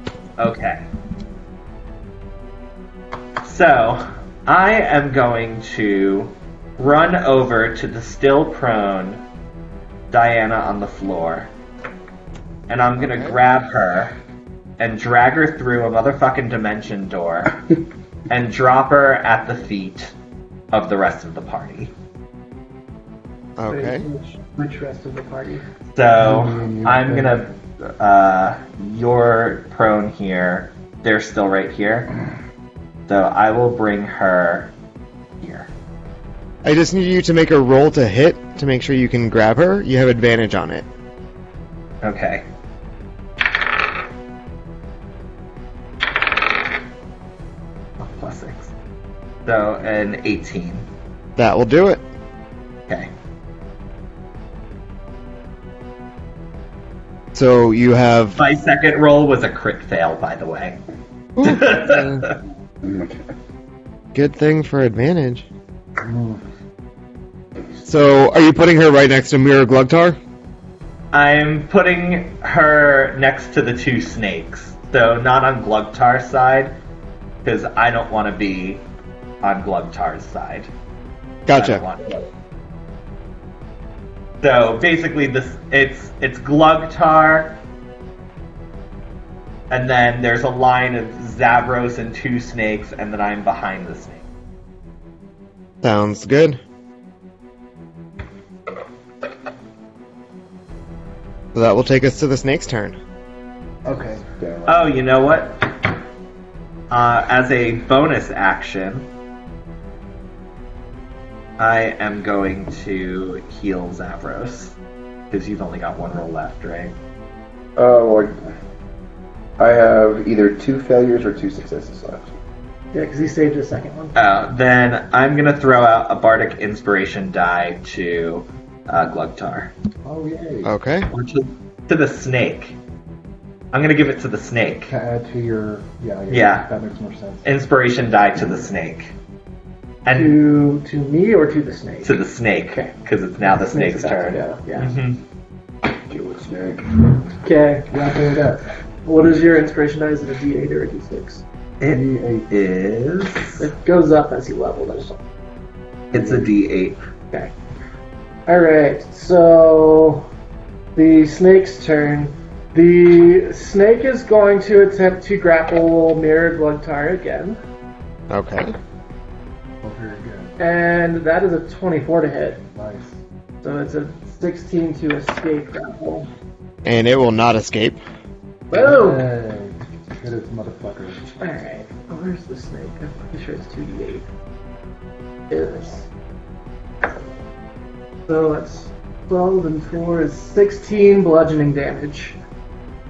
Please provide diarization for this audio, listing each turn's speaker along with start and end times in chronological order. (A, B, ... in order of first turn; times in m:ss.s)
0:00.4-0:00.8 A
0:03.4-0:09.2 A
0:10.1-0:11.5 A
0:12.7-0:14.1 A
0:13.1-0:13.4 B
0:14.8-0:17.6 A
0:18.3-0:20.1 A
0:20.7-0:21.9 A
0:23.6-0:24.1 B
0:23.7-0:25.6 C
0:26.0-0:32.1 A
0:26.2-0:27.3 D
0:33.1-0:34.7 A
0:35.4-0:35.7 A
0:36.6-0:40.9 B
0:42.0-0:42.4 A
0:48.0-0:48.7 A
0:49.4-0:50.9 A
0:51.4-0:52.0 B
0:57.3-0:58.4 B
0:58.4-1:00.8 A
1:01.4-1:02.2 B
1:01.4-1:02.4 A
1:02.8-1:03.2 E
1:04.1-1:05.4 B
1:06.0-1:06.4 D
1:07.8-1:10.2 B
1:11.1-1:16.7 A
1:17.4-1:18.8 A
1:19.4-1:20.7 A
1:21.5-1:21.8 B
1:21.5-1:22.2 A
1:24.4-1:27.6 A
1:29.7-1:34.2 A
1:35.8-1:36.6 B
1:41.5-1:43.0 B
1:43.8-1:44.2 D
1:44.4-1:44.8 E
1:44.7-1:45.7 A
1:46.9-1:49.1 A
1:51.6-1:54.7 A
1:55.3-1:57.0 A
1:57.8-1:58.4 E
1:59.6-2:02.3 E
2:02.9-2:04.1 C
2:04.1-2:09.7 A
2:10.0-2:10.7 D
2:10.6-2:11.1 B
2:11.1-2:12.8 A
2:13.7-2:14.9 A
2:14.9-2:17.4 D
2:16.3-2:16.7 A
2:17.4-2:19.1 A
2:20.0-2:20.4 A
2:20.1-2:22.2 C
2:22.0-2:25.2 A
2:23.5-2:24.9 C
2:26.1-2:26.9 E
2:27.4-2:27.9 C
2:27.9-2:28.6 D
2:29.0-2:31.4 C
2:31.8-2:33.6 A
2:31.9-2:32.5 D
2:33.6-2:35.2 C
2:36.1-2:37.0 A
2:36.1-2:36.5 D
2:38.5-2:40.3 C
2:41.0-2:47.6 C
2:48.3-2:48.8 B
2:49.8-2:50.5 D
2:50.6-2:52.6 C
2:52.7-2:53.1 D
2:53.6-2:56.3 C
2:56.8-2:58.0 B
2:58.7-2:59.3 C
2:58.7-3:01.3 D
3:01.4-3:04.2 C
3:05.5-3:06.1 C
3:08.3-3:12.4 C